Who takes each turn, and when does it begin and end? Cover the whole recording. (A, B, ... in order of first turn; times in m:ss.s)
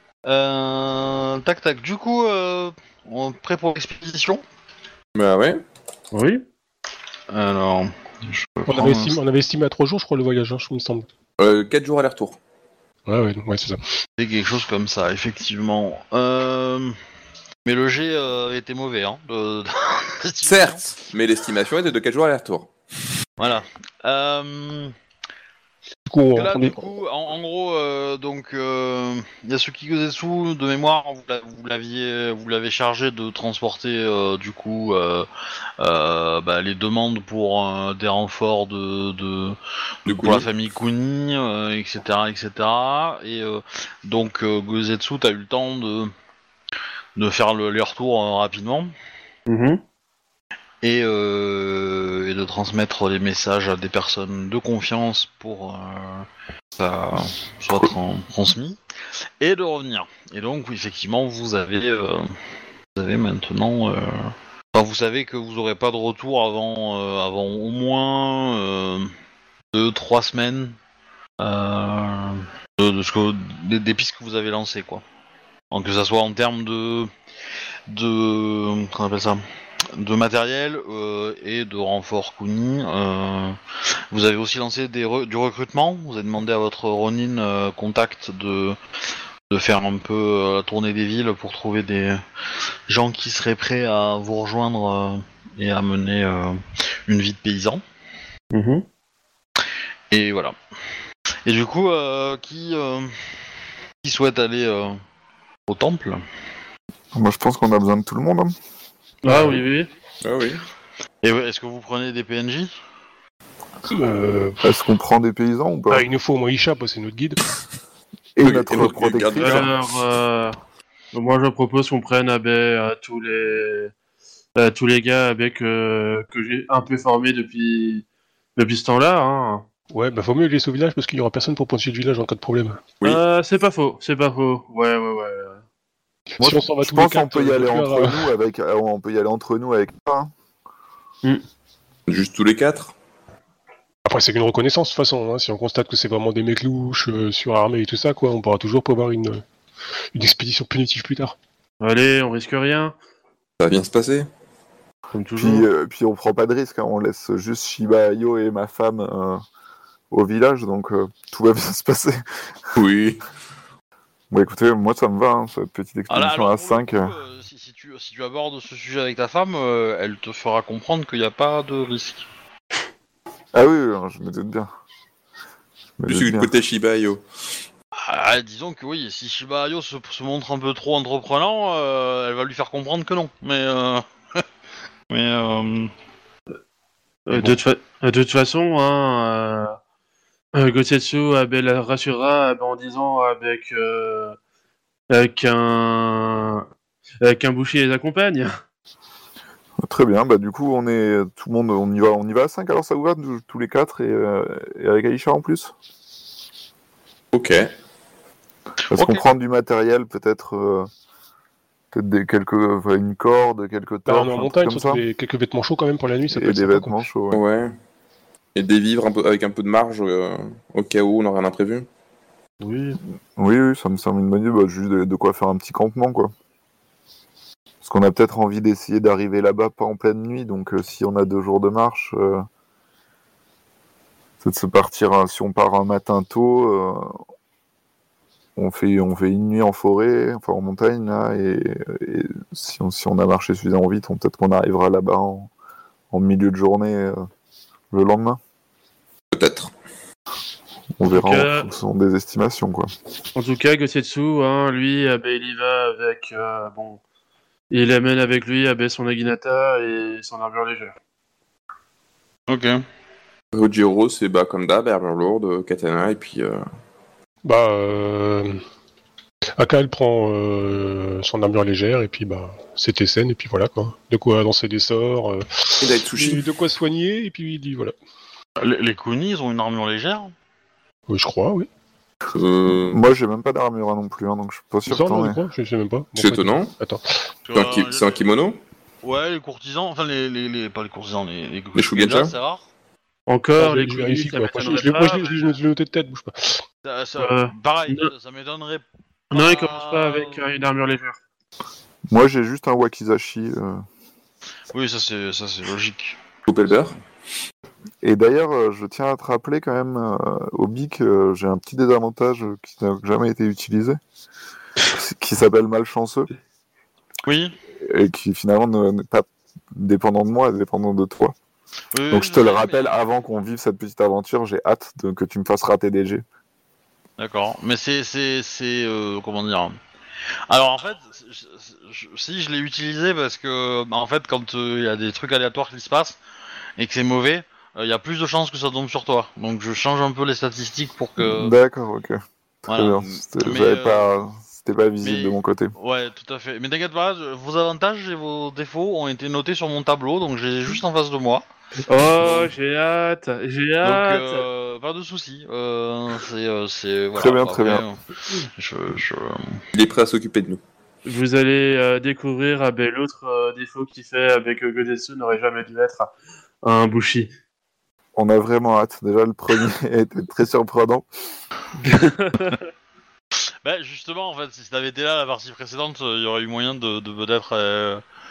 0:00.2-0:04.4 A
0:05.1-0:05.6 B
0:06.1-0:06.4 C
0:07.3-0:09.2 A
0:08.7-0:11.1 D
0:11.4-0:12.4 B
0:13.0-0:13.8 D
0:14.2-0:17.0 A
0:17.6-0:20.9 A
0:20.4-0:22.7 B
0:23.4-0:24.9 A
0:26.1-0:26.8 D
0:26.3-0:35.3 A
0:35.8-0:46.1 A
0:40.0-0:40.5 B
0:47.2-0:48.9 A
0:49.5-0:49.8 C
0:50.8-0:58.8 A
0:59.4-1:02.3 A
1:03.0-1:09.1 A
1:09.7-1:10.8 A
1:11.4-1:15.0 A
1:15.7-1:17.1 A
1:17.9-1:23.6 A
1:24.1-1:28.8 A
1:29.5-1:32.2 A
1:32.9-1:37.8 A
1:38.5-1:38.8 C
1:40.1-1:40.6 A
1:41.4-1:43.4 A
1:44.0-1:45.0 A
1:45.7-1:46.2 A
1:47.1-1:48.5 E
1:49.2-1:49.9 C
1:49.3-1:49.5 D
1:50.2-1:50.6 B
1:51.2-1:52.7 A
1:53.9-1:54.7 D
1:54.6-1:56.1 E
1:55.9-1:57.4 D
1:58.4-1:59.7 E
1:58.4-1:59.8 B
1:59.4-2:00.6 C
2:01.1-2:03.9 C
2:04.6-2:08.0 C
2:08.6-2:09.6 C
2:09.9-2:12.8 D
2:13.0-2:15.6 C
2:16.3-2:18.3 D
2:16.4-2:20.3 E
2:22.1-2:22.9 B
2:24.0-2:29.4 D
2:30.1-2:31.4 D
2:31.8-2:32.9 C
2:33.6-2:34.3 B
2:35.1-2:35.7 C
2:35.4-2:39.4 E
2:40.1-2:42.5 E
2:42.8-2:43.2 B
2:44.3-2:47.1 E
2:46.1-2:52.2 A
2:53.5-2:54.7 E
2:56.0-2:56.5 E
2:56.1-2:57.2 B
2:58.0-3:04.4 A
3:05.1-3:05.9 A
3:07.3-3:09.8 C
3:10.6-3:14.4 C
3:15.1-3:16.6 C
3:17.2-3:18.6 C
3:19.8-3:25.7 E
3:27.3-3:27.6 B
3:28.9-3:29.2 A
3:28.9-3:30.9 E
3:31.9-3:35.0 E
3:34.1-3:37.0 D
3:36.3-3:37.4 E
3:37.3-3:37.7 B
3:38.5-3:41.9 B
3:42.6-3:43.0 A
3:43.4-3:46.3 E
3:47.8-3:52.5 E
3:54.4-3:57.2 E
3:58.6-4:05.5 E
4:06.1-4:07.2 E
4:07.9-4:08.4 E
4:09.3-4:09.7 B
4:11.0-4:12.9 E
4:11.1-4:11.7 C
4:13.3-4:17.0 C
4:17.7-4:21.0 C
4:22.5-4:22.8 A
4:23.5-4:26.6 B
4:27.4-4:28.6 D
4:29.6-4:37.9 D
4:35.8-4:36.4 B
4:38.6-4:40.3 A
4:41.1-4:41.7 D
4:42.3-4:43.0 B
4:42.7-4:45.4 E
4:44.9-4:47.0 D
4:46.2-4:46.7 B
4:47.5-4:48.2 A
4:47.5-4:48.6 B
4:49.0-4:52.6 A
4:51.7-4:52.3 B
4:53.3-4:55.5 C
4:53.6-4:56.6 D
4:56.8-5:00.4 A
4:57.2-4:58.1 C
4:59.3-5:01.2 C
5:02.1-5:03.8 E
5:04.7-5:06.2 A
5:06.5-5:07.0 B
5:08.0-5:14.0 E
5:14.8-5:16.3 E
5:17.2-5:17.5 A
5:17.8-5:21.3 E
5:21.9-5:23.0 A
5:22.1-5:26.2 E
5:27.2-5:29.8 A
5:30.5-5:36.2 A
5:36.8-5:41.5 A
5:41.2-5:45.7 E
5:42.7-5:44.1 A
5:45.0-5:51.4 A
5:51.9-5:54.4 C
5:53.8-5:59.6 A
5:57.1-5:57.8 E
5:59.7-6:00.6 B
6:01.0-6:06.1 C
6:06.6-6:07.3 C
6:08.2-6:11.1 E
6:11.8-6:12.6 C
6:13.6-6:18.0 A